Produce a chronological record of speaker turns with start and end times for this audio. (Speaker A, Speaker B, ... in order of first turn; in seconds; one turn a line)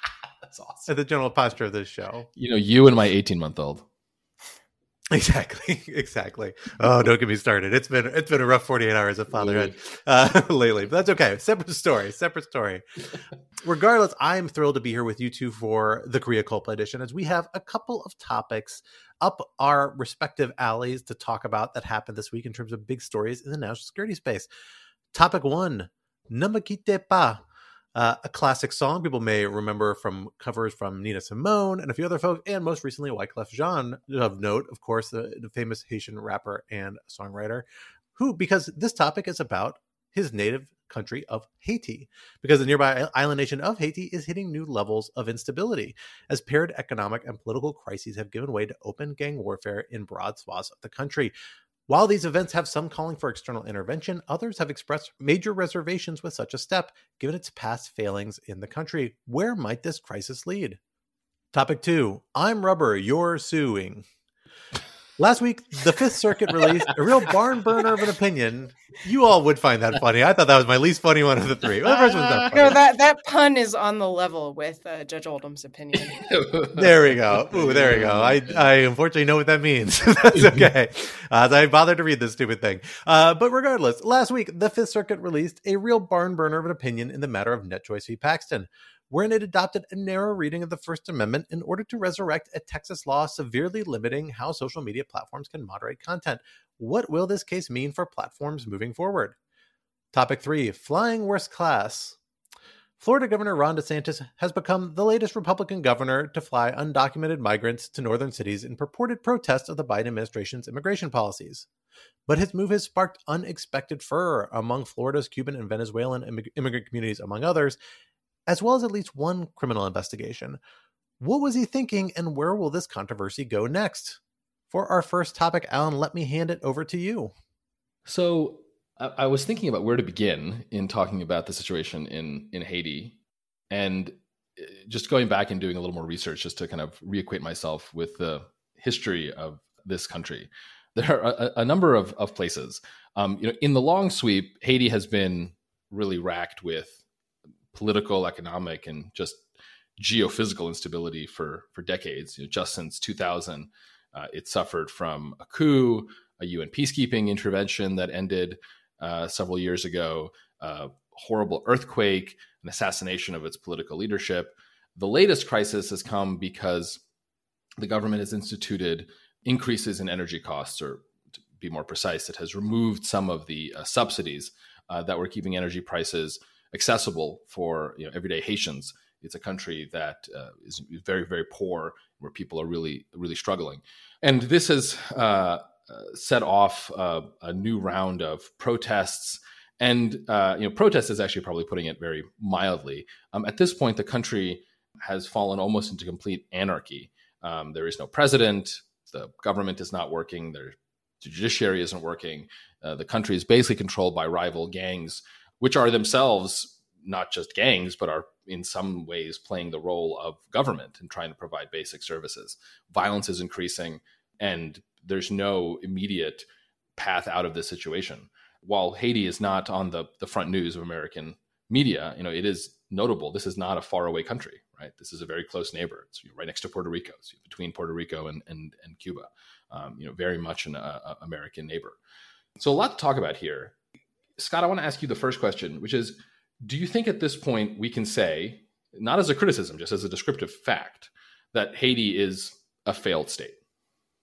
Speaker A: 0.5-0.9
Speaker B: 0.9-2.3
Speaker A: 2.4-3.9
Speaker B: 5.1-12.8
Speaker A: 9.4-9.7
Speaker B: 13.6-24.5
Speaker B: 25.1-27.4
Speaker B: 27.9-51.3
Speaker B: 51.9-60.8
Speaker B: 61.5-64.0
Speaker B: 65.2-72.8
Speaker A: 71.9-72.7
Speaker C: 72.5-76.2
Speaker A: 76.0-78.6
Speaker B: 76.8-99.4
Speaker A: 80.3-80.7
Speaker B: 100.1-102.2
Speaker B: 103.0-111.7
Speaker B: 112.3-117.8
Speaker B: 118.5-120.6
Speaker B: 121.2-124.2
Speaker B: 124.7-127.3
Speaker A: 128.1-133.2
Speaker A: 133.7-147.0
Speaker A: 147.7-149.4
Speaker A: 150.0-167.0
Speaker A: 167.8-171.1
Speaker A: 171.6-216.5
Speaker A: 217.0-232.0
Speaker A: 232.6-233.7
Speaker A: 234.4-243.6